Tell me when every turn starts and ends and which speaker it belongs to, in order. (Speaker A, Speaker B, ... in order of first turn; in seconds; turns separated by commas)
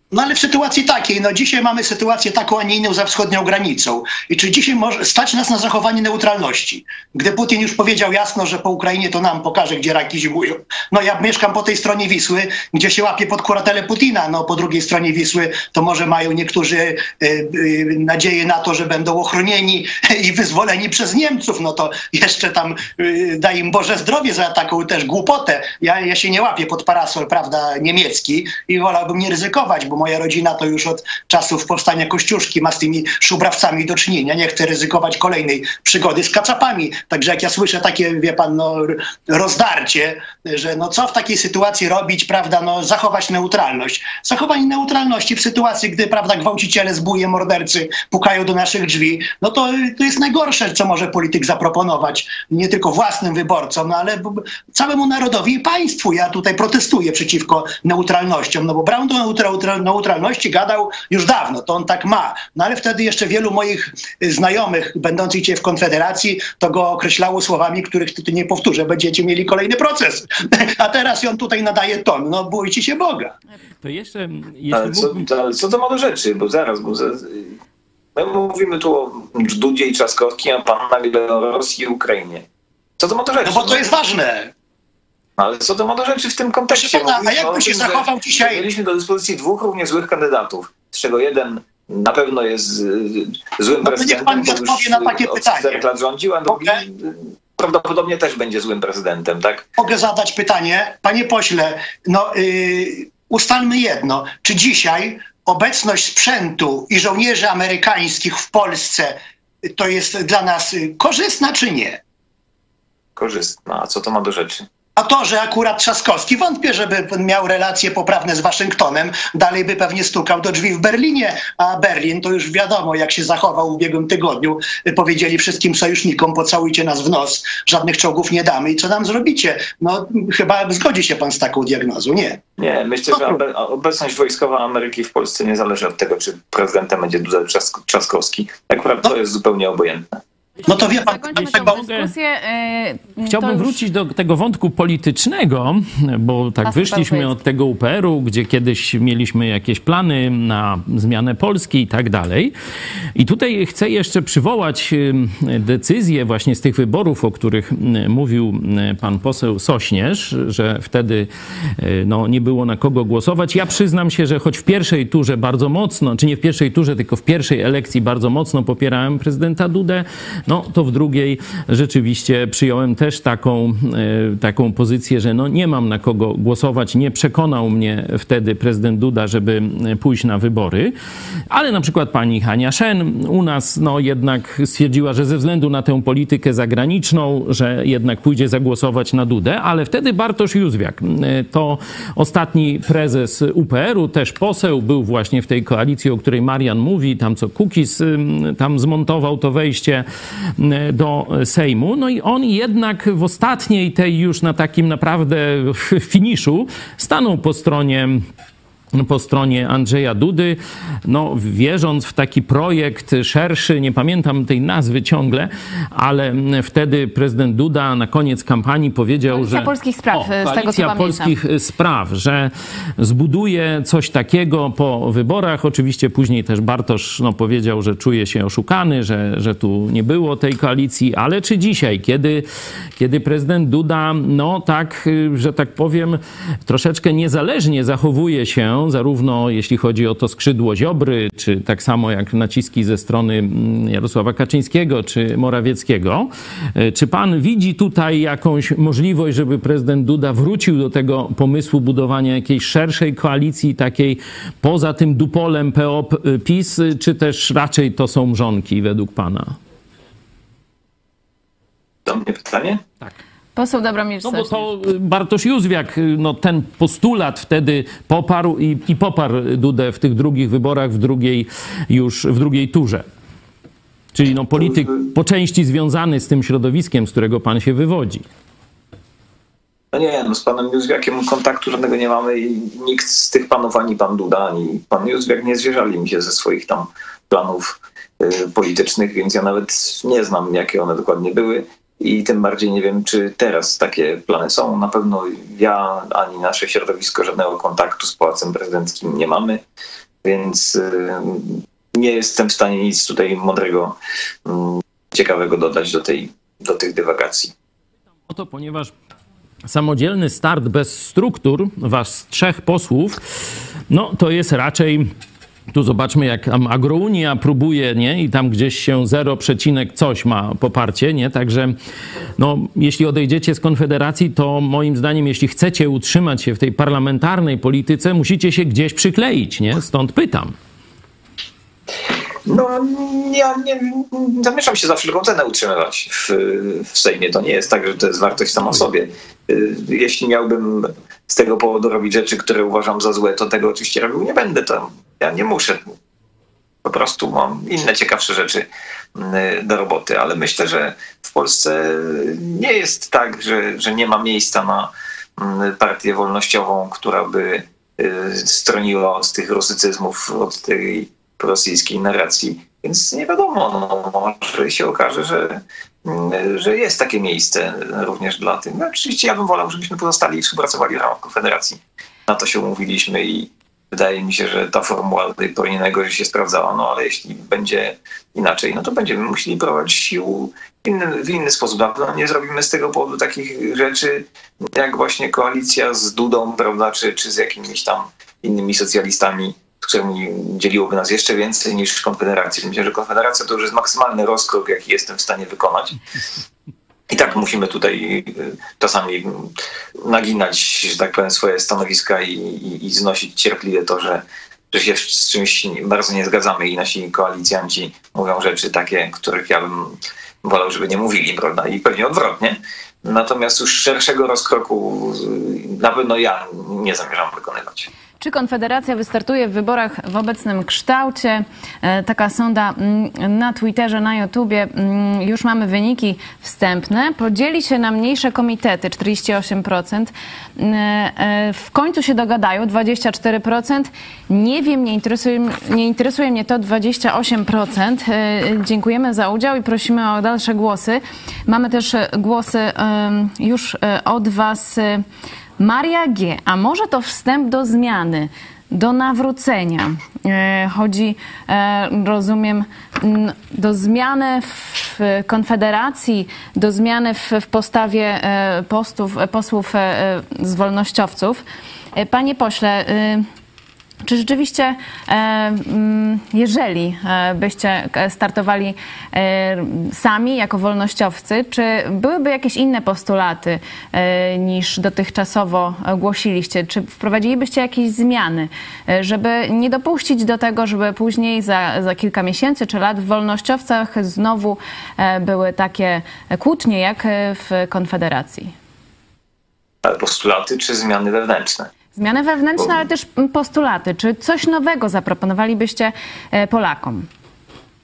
Speaker A: 0.1-73.3, Speaker B: 73.8-75.2, Speaker C: 74.7-77.6, Speaker C: 78.2-82.4, Speaker C: 83.0-83.9, Speaker A: 83.4-84.5, Speaker C: 85.4-99.7, Speaker A: 86.7-88.7, Speaker A: 93.8-95.8, Speaker A: 96.5-96.8, Speaker A: 99.8-112.0, Speaker C: 113.2-114.7, Speaker A: 115.0-132.4, Speaker C: 132.6-140.2, Speaker A: 140.7-141.8, Speaker B: 140.8-142.1, Speaker D: 140.9-143.8, Speaker B: 143.3-152.5, Speaker D: 146.6-147.3, Speaker B: 153.2-180.9, Speaker B: 181.5-200.0, Speaker B: 200.6-208.2, Speaker B: 208.9-232.4, Speaker D: 219.3-221.3, Speaker B: 233.0-259.6, Speaker C: 262.1-262.8, Speaker D: 263.6-264.6, Speaker B: 264.2-273.1, Speaker B: 274.1-278.2, Speaker C: 279.9-299.6, Speaker C: 300.2-307.5, Speaker B: 308.3-308.9, Speaker B: 309.7-313.2, Speaker B: 313.9-315.1, Speaker B: 315.7-321.7, Speaker B: 322.4-330.5, Speaker C: 332.4-345.8, Speaker C: 346.8-396.0, Speaker C: 397.1-417.9, Speaker D: 418.2-445.0, Speaker D: 445.6-461.4, Speaker D: 461.9-463.2, Speaker D: 464.1-488.5, Speaker C: 489.8-491.7, Speaker D: 491.9-497.1